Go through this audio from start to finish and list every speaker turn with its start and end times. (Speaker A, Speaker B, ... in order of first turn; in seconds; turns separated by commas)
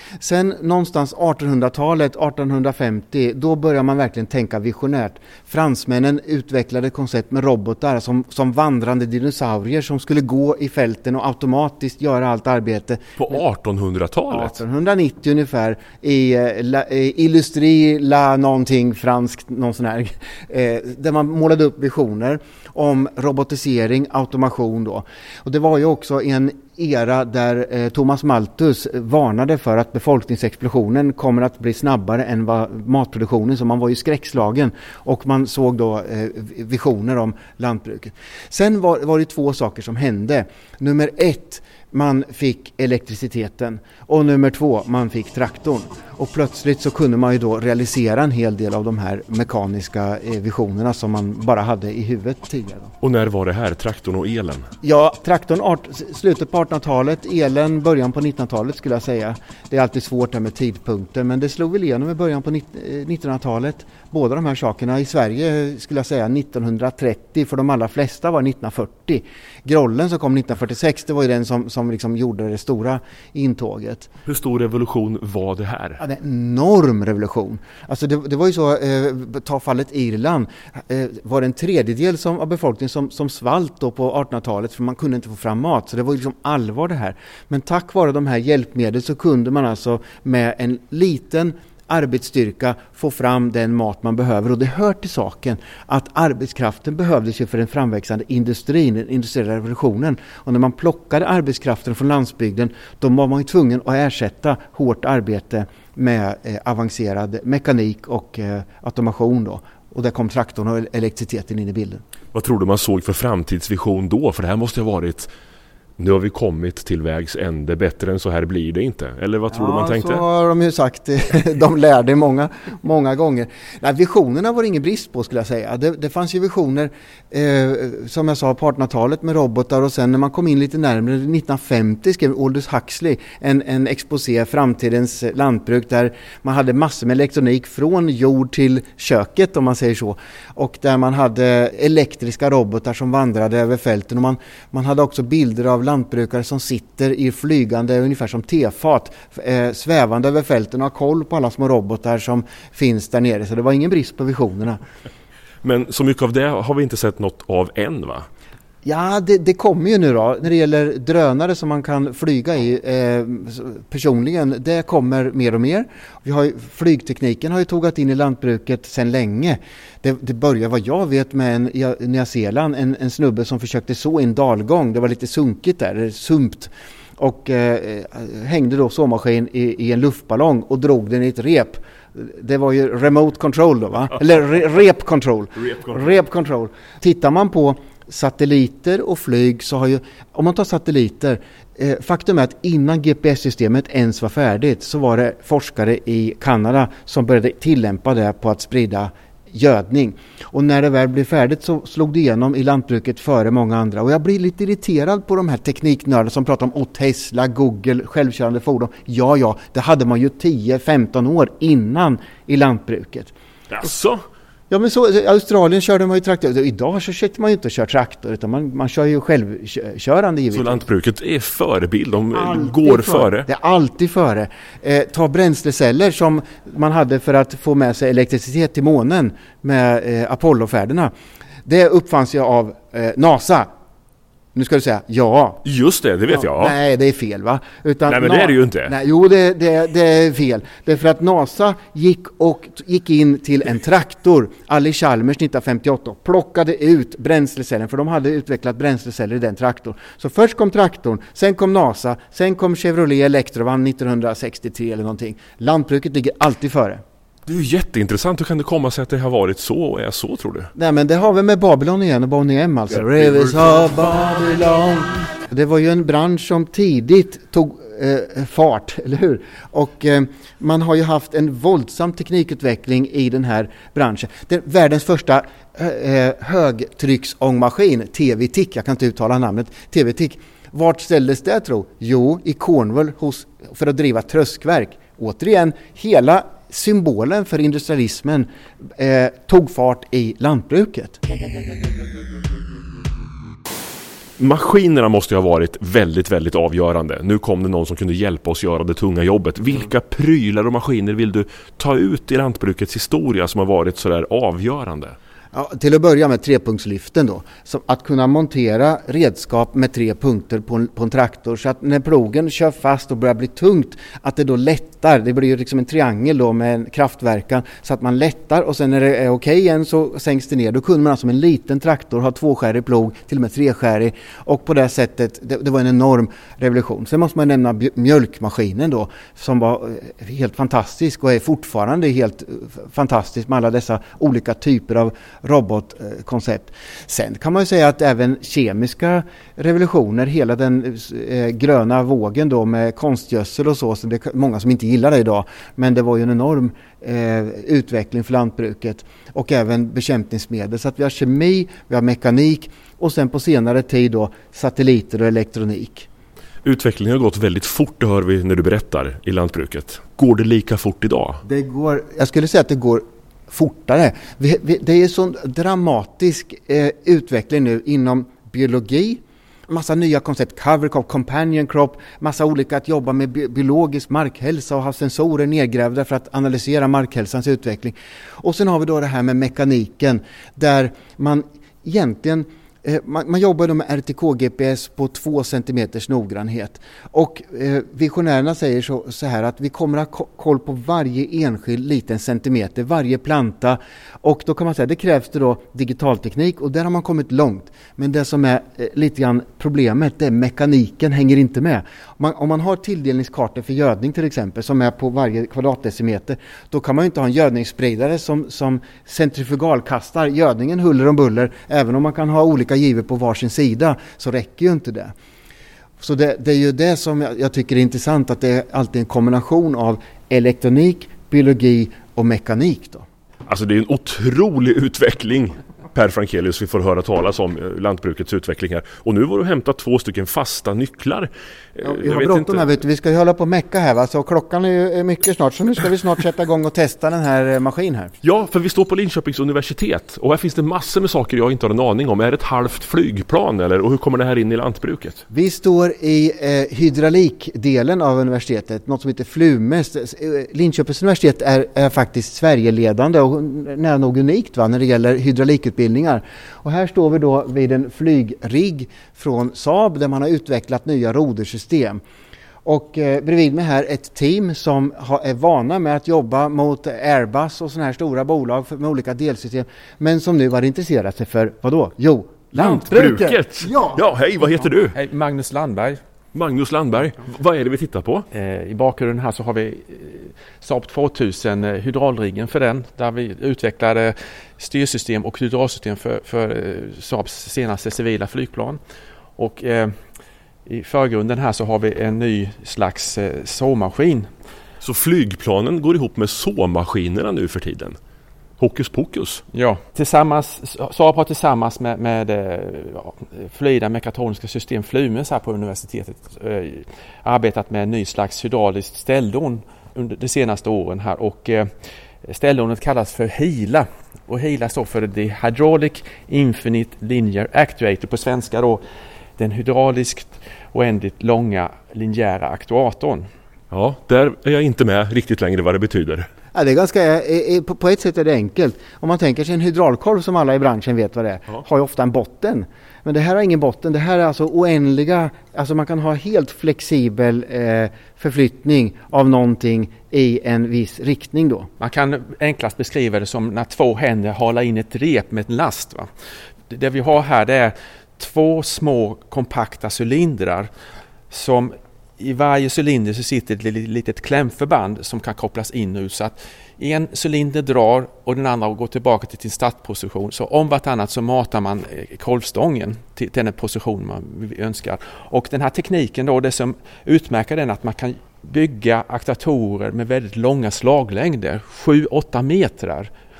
Speaker A: 0.2-13.2, Speaker B: 13.2-14.6, Speaker A: 14.3-52.9, Speaker B: 53.0-54.7, Speaker A: 54.8-74.1, Speaker B: 74.3-76.0, Speaker A: 76.0-112.0, Speaker B: 112.3-115.3, Speaker B: 116.0-120.2, Speaker A: 119.5-154.8, Speaker B: 155.6-158.3, Speaker A: 158.8-213.3, Speaker B: 213.7-214.2, Speaker A: 214.7-220.8, Speaker B: 220.5-223.5, Speaker A: 222.3-231.1, Speaker A: 231.7-233.7, Speaker A: 234.6-235.6, Speaker B: 235.6-236.8, Speaker A: 236.3-257.0, Speaker B: 238.1-238.9, Speaker B: 257.5-260.7, Speaker A: 260.8-291.2, Speaker B: 263.2-263.5, Speaker B: 294.4-305.2, Speaker A: 305.5-356.1, Speaker B: 356.6-361.4, Speaker A: 361.4-415.1, Speaker A: 416.0-423.1, Speaker B: 423.5-432.7, Speaker A: 431.8-438.1, Speaker B: 438.2-445.2, Speaker A: 445.3-462.0, Speaker A: 462.6-474.0, Speaker B: 472.5-475.0, Speaker C: 474.9-476.0, Speaker B: 476.3-478.3, Speaker C: 478.3-488.8, Speaker C: 489.4-490.0, Speaker C: 490.7-494.3, Speaker B: 494.8-498.0, Speaker B: 498.6-499.4, Speaker C: 499.5-511.7, Speaker C: 512.2-518.8, Speaker C: 519.4-523.3, Speaker B: 523.7-526.3, Speaker A: 526.5-541.7, Speaker C: 541.8-546.1, Speaker C: 546.7-550.7, Speaker C: 551.3-573.1